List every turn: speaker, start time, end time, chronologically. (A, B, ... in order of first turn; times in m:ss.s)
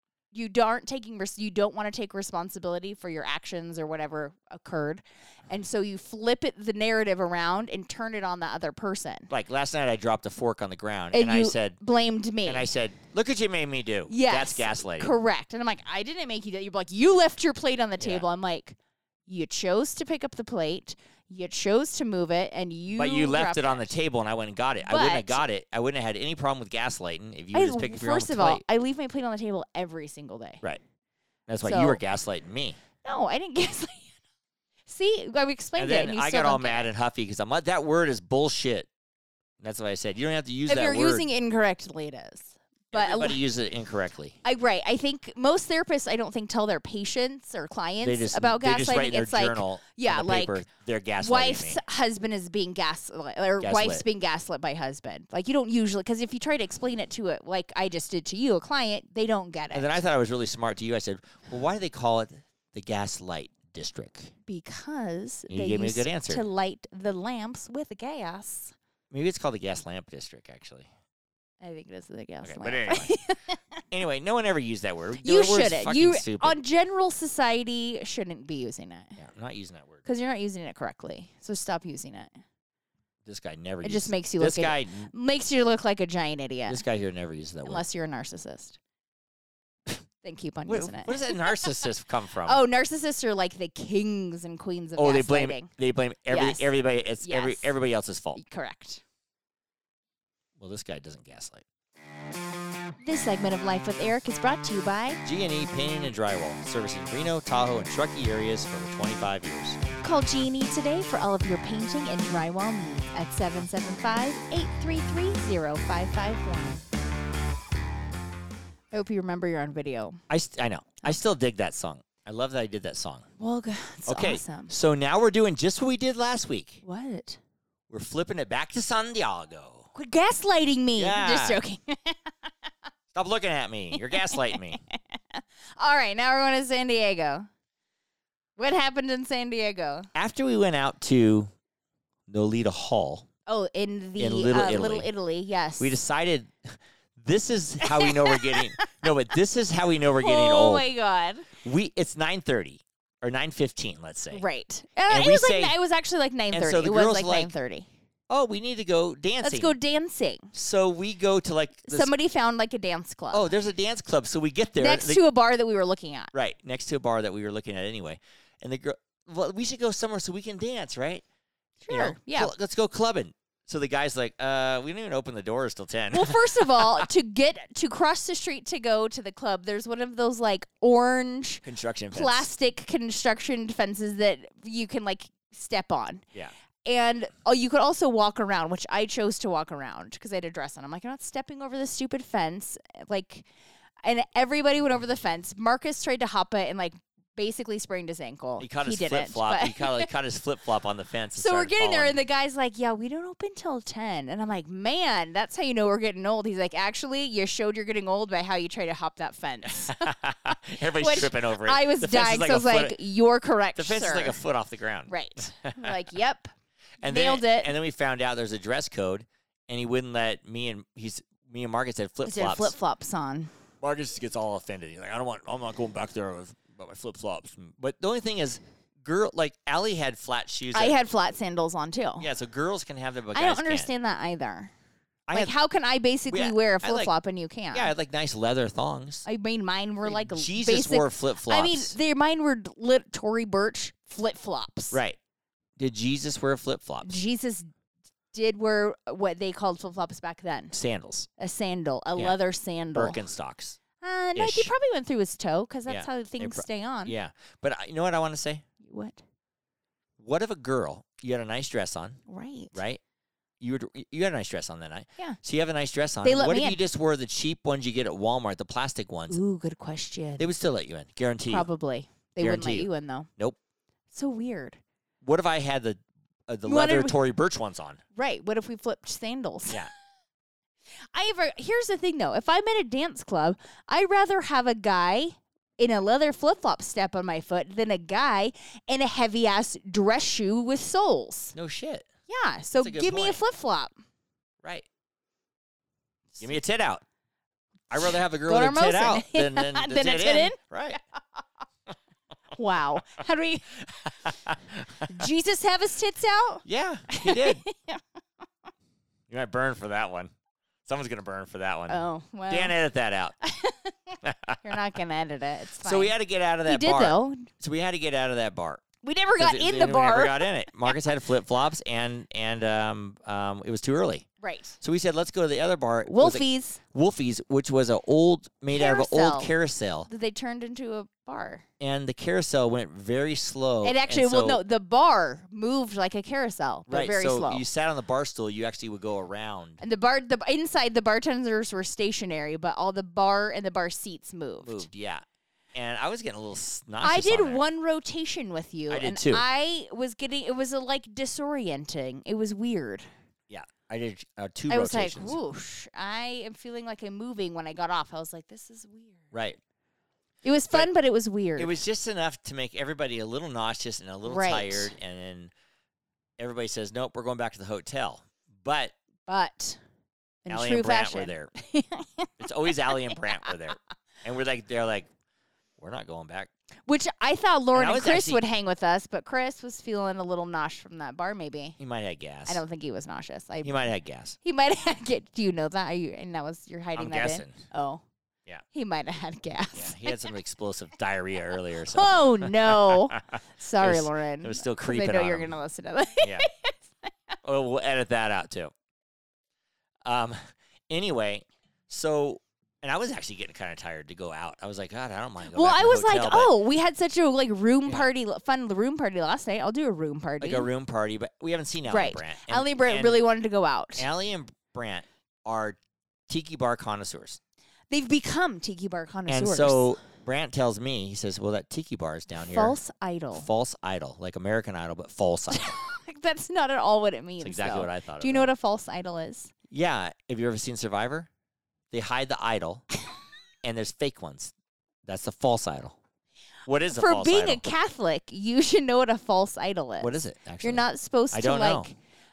0:00.3-0:09.3 A
0:09.3-0:11.8 B
0:11.1-0:12.7 A
0:12.4-0:15.2 B
0:14.1-0:23.9 A
0:18.0-0:18.2 B
0:22.9-0:28.6 B
0:24.8-0:25.4 A
0:27.5-0:30.6 A
0:31.5-0:32.8 B
0:31.6-0:32.0 A
0:33.0-0:34.1 A
0:34.9-0:36.9 A
0:35.8-0:38.9 B
0:39.6-0:41.3 B
0:40.7-0:43.4 A
0:42.9-0:44.4 B
0:44.4-0:50.6 A
0:48.0-0:51.8 B
0:51.2-1:00.0 A
0:53.6-0:54.0 B
0:59.7-1:04.3 B
1:04.5-1:08.7 A
1:05.5-1:06.4 B
1:09.1-1:10.9 B
1:11.6-1:13.6 A
1:12.4-1:13.1 B
1:13.9-1:16.6 B
1:15.2-1:19.2 A
1:19.2-1:20.0 B
1:20.0-1:22.3 A
1:23.2-1:25.1 B
1:23.8-1:26.8 A
1:26.7-1:27.8 B
1:27.6-1:28.8 A
1:30.2-1:31.6 A
1:30.7-1:32.6 B
1:32.4-1:35.7 A
1:35.0-1:38.4 B
1:36.3-1:36.7 A
1:37.2-1:37.7 A
1:38.3-1:39.0 A
1:40.6-1:41.6 B
1:43.0-1:45.2 A
1:45.2-1:49.8 B
1:50.0-1:56.8 A
1:58.9-2:00.2 A
2:00.3-2:03.3 B
2:03.4-2:04.7 A
2:04.0-2:06.8 B
2:06.8-2:07.4 A
2:07.9-2:09.9 B
2:09.9-2:12.5 A
2:11.0-2:11.6 B
2:13.1-2:14.8 B
2:13.9-2:17.5 A
2:18.6-2:20.1 A
2:20.1-2:21.5 B
2:22.3-2:23.3 B
2:23.5-2:26.0 A
2:24.2-2:25.1 B
2:25.8-2:30.9 B
2:27.8-2:29.0 A
2:30.2-2:31.5 A
2:31.6-2:34.4 B
2:34.3-2:37.9 A
2:35.1-2:35.8 B
2:36.5-2:37.5 B
2:38.3-2:39.8 B
2:39.4-2:40.5 A
2:40.5-2:42.1 B
2:41.8-2:43.5 A
2:43.3-2:45.2 B
2:44.8-2:46.3 A
2:46.3-2:51.2 B
2:51.8-2:52.5 A
2:51.9-2:57.1 B
2:56.1-3:06.2 A
3:01.6-3:02.5 B
3:06.8-3:13.5 A
3:14.0-3:20.1 A
3:18.6-3:22.2 B
3:21.3-3:30.1 A
3:29.7-3:33.0 B
3:30.8-3:34.4 A
3:33.8-3:35.9 B
3:35.1-3:36.5 A
3:37.0-3:42.8 B
3:37.0-3:37.7 A
3:42.2-3:43.5 A
3:43.8-3:51.0 B
3:50.7-3:52.3 A
3:52.2-3:53.9 B
3:53.3-3:54.7 A
3:55.3-3:55.5 B
3:55.3-3:57.9 A
3:56.3-3:57.1 B
3:57.7-3:59.2 B
3:59.2-4:05.0 A
4:00.0-4:01.9 B
4:04.9-4:05.2 B
4:05.8-4:07.1 B
4:07.0-4:07.7 A
4:08.3-4:10.7 A
4:10.7-4:11.3 B
4:11.4-4:13.2 A
4:12.9-4:13.8 B
4:14.0-4:17.1 A
4:14.4-4:14.7 B
4:15.9-4:18.6 B
4:18.8-4:19.2 A
4:20.2-4:22.2 B
4:22.3-4:22.8 A
4:22.7-4:23.0 B
4:23.6-4:29.4 B
4:26.2-4:26.8 A
4:29.3-4:30.5 A
4:30.4-4:31.7 B
4:31.5-4:33.3 A
4:32.4-4:33.6 B
4:34.1-4:34.8 A
4:35.2-4:38.0 B
4:36.6-4:37.2 A
4:38.1-4:39.8 A
4:41.1-4:51.5 A
4:51.5-4:52.1 B
4:52.3-4:53.9 A
4:52.8-4:53.4 B
4:56.4-4:57.0 B
4:57.9-5:01.0 B
4:58.0-5:01.0 A
5:02.5-5:03.8 A
5:03.8-5:05.2 B
5:05.0-5:08.0 A
5:06.6-5:07.6 B
5:09.3-5:10.3 B
5:10.8-5:13.3 B
5:11.9-5:12.7 A
5:13.4-5:17.5 A
5:14.2-5:14.6 B
5:15.8-5:18.8 B
5:19.0-5:21.0 A
5:19.4-5:24.3 B
5:24.4-5:24.8 A
5:24.8-5:30.1 B
5:26.1-5:26.8 A
5:28.7-5:29.5 A
5:30.1-5:31.6 A
5:31.8-5:34.6 B
5:33.8-5:37.6 A
5:36.9-5:39.8 B
5:39.8-5:44.9 A
5:44.6-5:47.6 B
5:47.0-5:53.0 A
5:48.9-5:49.4 B
5:53.5-5:55.4 B
5:54.7-5:59.3 A
5:59.3-5:59.6 B
6:00.4-6:01.7 A
6:01.6-6:05.5 B
6:04.2-6:04.9 A
6:06.4-6:08.9 B
6:09.3-6:09.8 A
6:10.4-6:13.5 A
6:10.5-6:11.5 B
6:12.4-6:15.1 B
6:15.8-6:16.5 B
6:16.9-6:21.8 A
6:17.7-6:18.4 B
6:21.8-6:22.6 B
6:22.4-6:23.8 A
6:23.6-6:24.4 B
6:24.4-6:28.0 A
6:27.0-6:27.6 B
6:28.7-6:30.3 A
6:29.7-6:35.6 B
6:31.8-6:37.1 A
6:36.2-6:36.5 B
6:37.4-6:38.7 B
6:40.0-6:46.6 B
6:45.4-6:50.7 A
6:50.4-6:53.2 B
6:51.9-6:54.1 A
6:54.0-6:57.4 B
6:57.9-6:59.9 A
6:59.3-7:02.8 B
7:02.5-7:03.5 A
7:03.3-7:05.8 B
7:05.5-7:09.5 A
7:07.4-7:08.5 B
7:09.7-7:11.3 B
7:11.9-7:12.8 B
7:13.6-7:14.5 B
7:15.0-7:16.0 B
7:16.6-7:17.6 B
7:16.9-7:21.9 A
7:20.0-7:21.9 B